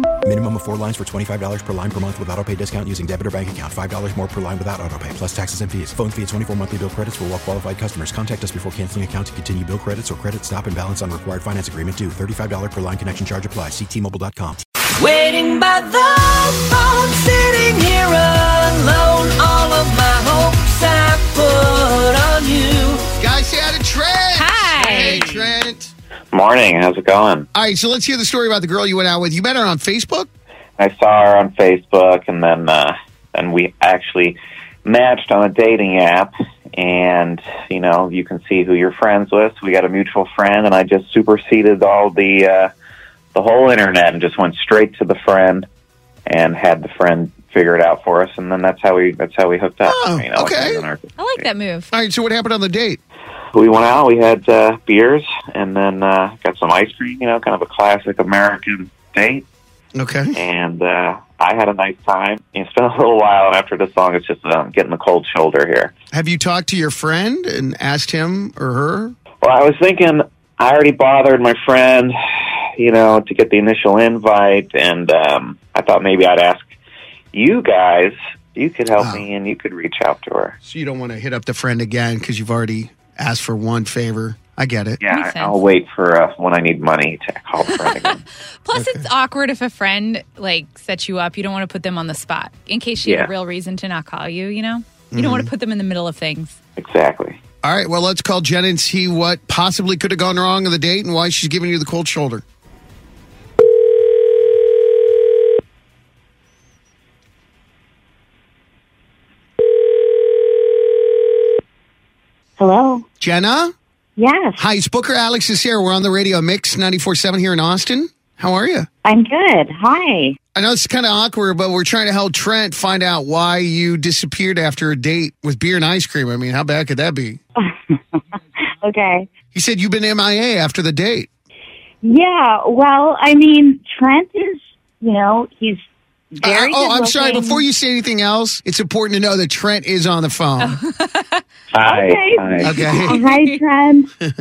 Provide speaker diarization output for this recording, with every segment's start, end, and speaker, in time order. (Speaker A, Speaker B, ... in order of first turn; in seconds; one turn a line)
Speaker A: 0.2-14.6
Speaker B: 15.0-23.1
Speaker C: 23.2-25.9
Speaker D: 24.4-25.3
Speaker E: 26.3-27.5
Speaker C: 27.5-30.3
Speaker E: 30.8-42.7
Speaker E: 43.3-45.7
Speaker E: 46.3-51.4
Speaker C: 49.9-50.9
Speaker D: 51.2-51.9
Speaker C: 51.9-53.0
Speaker E: 53.5-59.5
Speaker C: 60.0-60.4
Speaker E: 60.3-65.9
Speaker C: 66.1-69.2
Speaker E: 69.4-72.2
Speaker E: 72.8-76.7
Speaker E: 77.3-80.5
Speaker C: 79.0-79.2
Speaker C: 80.6-85.0
Speaker E: 85.0-88.2
Speaker D: 85.0-85.6
Speaker D: 87.7-96.6
Speaker C: 88.7-89.1
Speaker E: 93.0-93.3
Speaker C: 95.1-95.5
Speaker E: 96.8-97.4
Speaker C: 97.6-102.4
Speaker F: 112.6-113.0
Speaker C: 113.2-113.7
Speaker F: 114.2-114.6
Speaker C: 114.6-118.9
Speaker F: 119.0-120.4
Speaker C: 120.5-127.4
Speaker F: 127.6-128.2
Speaker F: 128.8-129.3
Speaker C: 129.5-131.3
Speaker F: 132.0-137.6
Speaker C: 136.4-140.8
Speaker D: 140.6-141.4
Speaker E: 141.7-142.8
Speaker F: 141.8-144.1
Speaker C: 142.6-143.2
Speaker D: 143.0-143.6